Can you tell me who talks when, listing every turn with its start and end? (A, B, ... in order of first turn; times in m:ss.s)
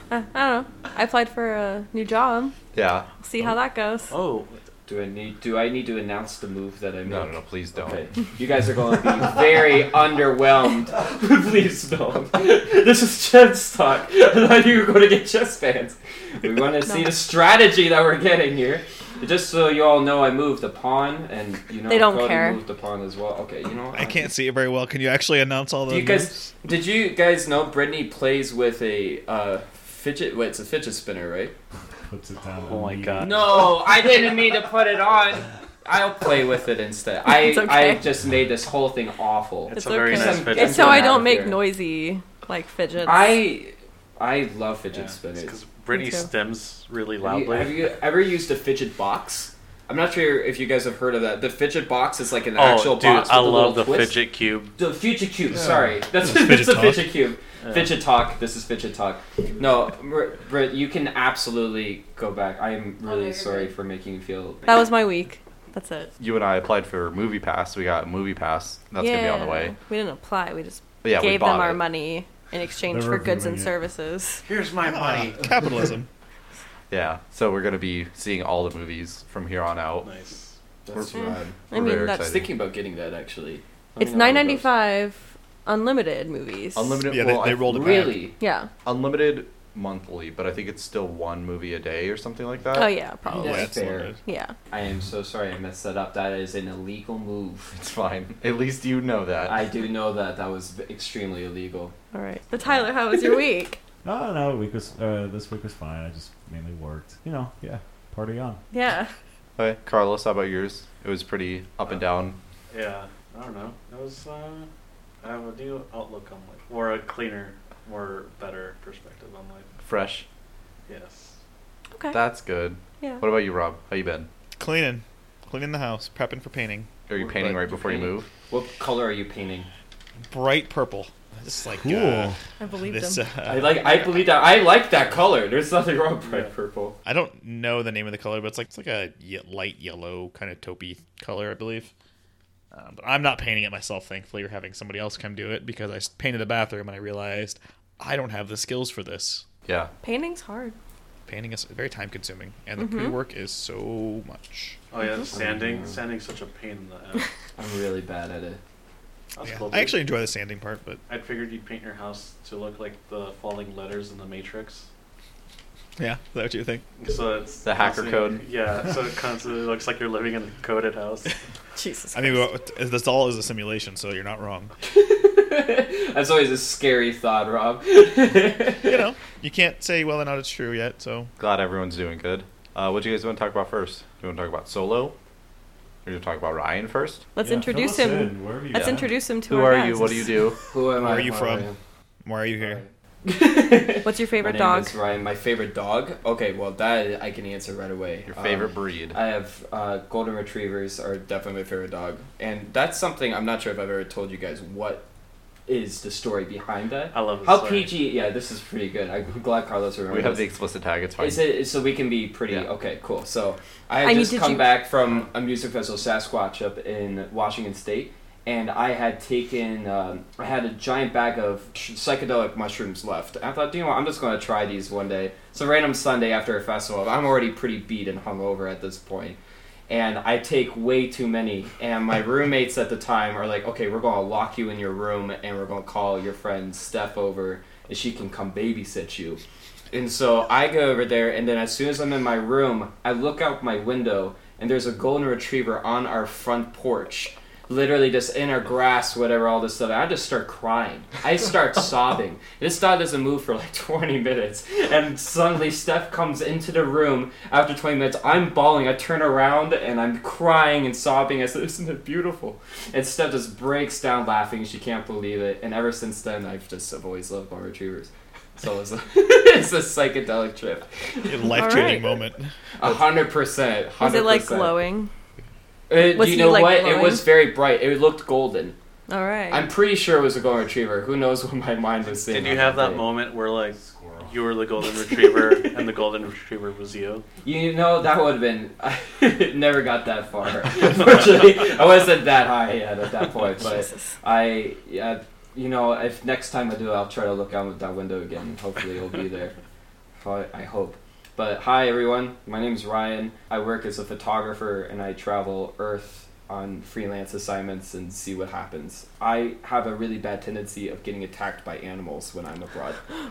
0:00.1-0:02.5 A
0:02.7-0:03.1 B
0:03.2-0:04.1 A
0:04.1-0:04.6 C
0:04.9-0:24.3 D
0:07.0-0:08.0 B
0:16.8-0:17.1 A
0:21.9-0:22.6 A
0:23.9-0:26.4 E
0:25.9-0:31.5 D
0:32.1-0:33.7 F
0:32.4-0:33.6 C
0:33.2-0:41.6 D
0:37.2-0:38.0 A
0:39.7-0:41.2 C
0:39.7-0:43.4 A
0:43.0-0:45.6 D
0:44.9-0:47.8 C
0:45.9-0:46.3 A
0:47.2-0:54.2 D
0:52.6-0:54.7 C
0:54.8-1:04.7 D
0:55.5-0:56.0 F
0:56.2-0:57.0 E
0:57.6-0:57.9 C
1:03.0-1:03.7 A
1:04.6-1:06.1 A
1:06.2-1:09.7 B
1:09.0-1:14.4 A
1:11.0-1:11.8 B
1:12.9-1:13.7 F
1:14.4-1:15.5 C
1:14.8-1:16.1 E
1:16.9-1:20.1 B
1:20.0-1:20.5 C
1:20.8-1:21.6 D
1:20.9-1:22.5 B
1:21.1-1:22.4 A
1:22.2-1:24.7 D
1:24.0-1:27.0 A
1:26.7-1:28.2 B
1:27.1-1:28.3 E
1:27.7-1:28.4 D
1:28.3-1:28.7 A
1:28.8-1:32.9 B
1:32.7-1:34.5 A
1:33.3-1:34.2 E
1:33.3-1:34.1 D
1:34.7-1:37.7 D
1:37.7-1:39.6 B
1:39.4-1:41.9 D
1:42.1-1:43.8 A
1:44.0-1:48.6 F
1:48.7-1:49.1 A
1:49.6-1:52.4 B
1:52.7-1:54.7 C
1:55.2-1:59.7 C
1:59.8-2:00.2 B
2:00.9-2:01.4 C
2:02.1-2:04.3 B
2:04.6-2:07.6 E
2:07.1-2:08.3 B
2:08.5-2:09.7 D
2:10.3-2:14.3 E
2:11.8-2:12.4 F
2:12.6-2:13.2 A
2:13.4-2:17.0 D
2:17.0-2:21.9 E
2:22.7-2:29.4 E
2:29.6-2:29.9 B
2:30.0-2:30.8 A
2:31.3-2:34.8 E
2:32.8-2:33.2 A
2:34.9-2:37.3 C
2:35.3-2:36.0 D
2:37.6-2:38.6 D
2:39.3-2:40.0 C
2:39.4-2:41.0 E
2:41.1-2:44.9 C
2:46.0-2:46.8 E
2:47.0-2:51.3 C
2:47.6-2:48.4 B
2:51.8-2:52.5 A
2:52.1-2:54.7 E
2:54.8-2:59.0 D
2:58.8-3:01.3 E
3:01.4-3:05.1 B
3:06.0-3:07.2 B
3:07.3-3:10.5 A
3:07.4-3:09.1 F
3:08.7-3:10.6 B
3:10.7-3:11.8 D
3:10.9-3:11.7 E
3:12.2-3:12.8 E
3:12.6-3:25.0 D
3:14.0-3:15.0 A
3:18.3-3:19.2 B
3:25.7-3:30.4 D
3:27.1-3:27.9 C
3:30.1-3:31.4 B
3:31.2-3:49.4 D
3:34.0-3:34.8 A
3:49.9-4:31.9 D
4:31.3-4:32.5 E
4:31.5-4:32.2 A
4:32.8-4:34.8 D
4:34.0-4:35.1 A
4:35.9-4:38.8 D
4:36.0-4:37.3 A
4:39.1-4:39.7 A
4:39.5-4:43.1 D
4:42.1-4:47.2 C
4:43.7-4:44.4 F
4:47.4-4:59.5 D
4:53.7-4:54.1 A
5:00.2-5:13.0 D